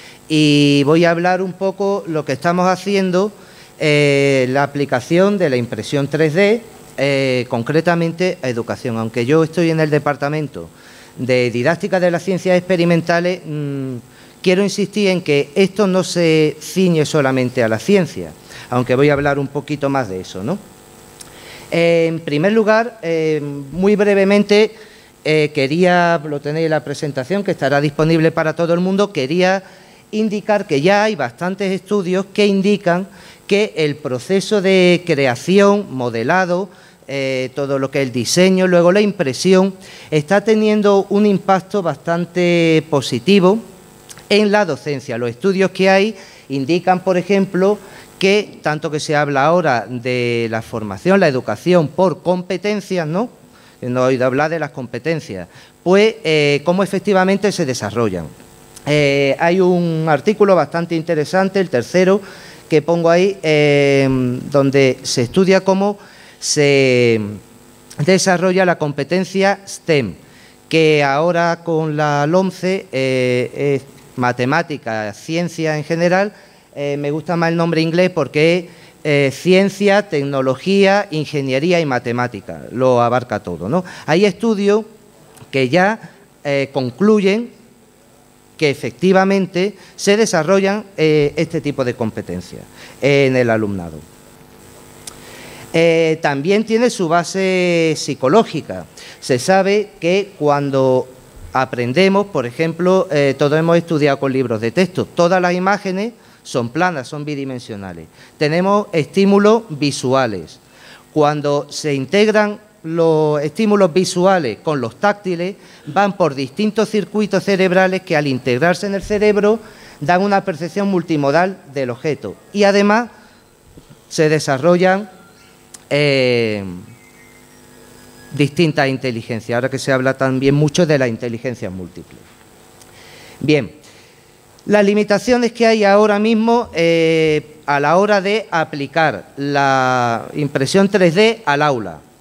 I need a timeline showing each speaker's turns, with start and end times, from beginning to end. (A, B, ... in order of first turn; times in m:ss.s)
0:00.3-0:20.6 A
0:21.7-0:24.7 A
0:25.2-0:43.6 A
0:44.3-0:53.3 A
0:53.8-0:58.3 A
0:58.9-1:07.4 A
1:08.0-1:10.2 A
1:10.7-1:24.8 A
1:25.5-1:27.5 A
1:28.6-1:34.0 A
1:35.7-1:50.6 A
1:51.1-2:03.1 A
2:04.1-2:05.1 A
2:05.9-2:06.8 A
2:08.3-2:12.2 A
2:13.4-2:13.8 A
2:14.7-2:22.0 A